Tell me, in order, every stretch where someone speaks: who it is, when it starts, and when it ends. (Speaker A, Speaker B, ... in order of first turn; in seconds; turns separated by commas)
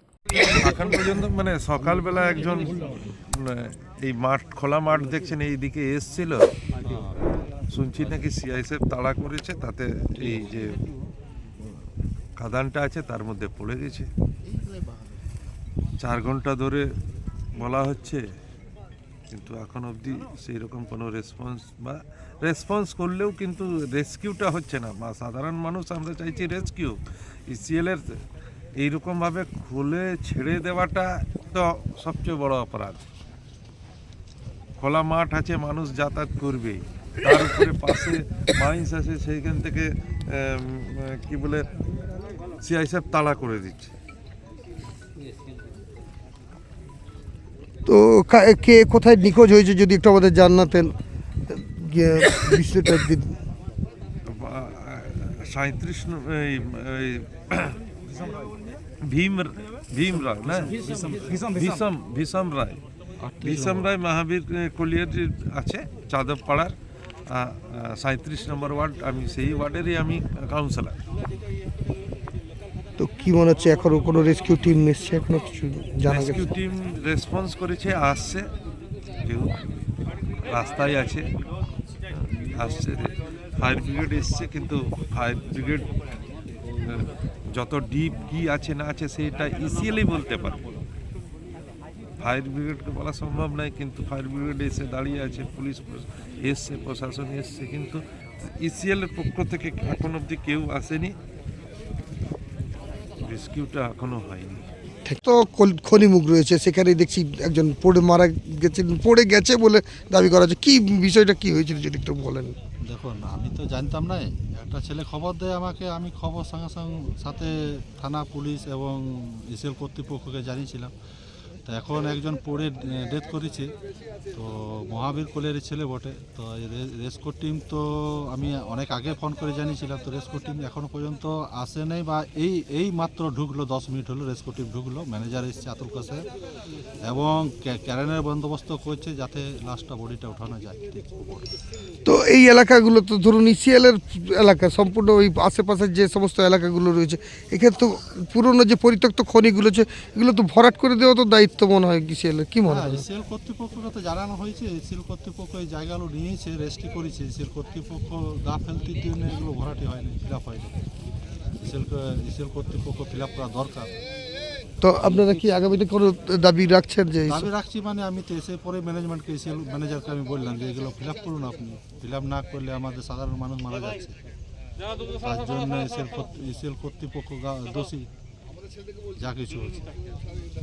Speaker A: 0.4-6.5, Speaker B: 6.8-7.2, Speaker A: 7.7-10.8, Speaker A: 12.4-14.1, Speaker B: 14.5-15.2, Speaker A: 16.0-16.9, Speaker A: 17.6-18.2, Speaker A: 19.3-27.0, Speaker A: 27.5-28.0, Speaker A: 28.8-33.0, Speaker A: 34.8-41.7, Speaker A: 42.6-43.9, Speaker C: 47.9-50.9, Speaker C: 51.5-53.4, Speaker A: 54.3-57.8, Speaker A: 59.0-62.8, Speaker B: 63.2-63.9, Speaker A: 63.4-66.7, Speaker A: 67.3-71.0, Speaker C: 73.0-76.5, Speaker A: 76.1-78.5, Speaker A: 79.2-79.5, Speaker A: 80.4-81.3, Speaker A: 82.5-85.9, Speaker A: 86.8-90.6, Speaker A: 92.2-98.0, Speaker A: 98.6-101.2, Speaker A: 103.2-104.7, Speaker C: 105.1-112.5, Speaker B: 112.8-120.9, Speaker B: 121.7-123.7, Speaker B: 124.3-136.3, Speaker B: 137.0-141.5, Speaker C: 142.0-153.0, Speaker B: 152.7-160.8, Speaker B: 161.6-163.9, Speaker C: 164.8-167.5, Speaker B: 167.3-174.2, Speaker B: 175.2-178.1, Speaker B: 179.1-179.8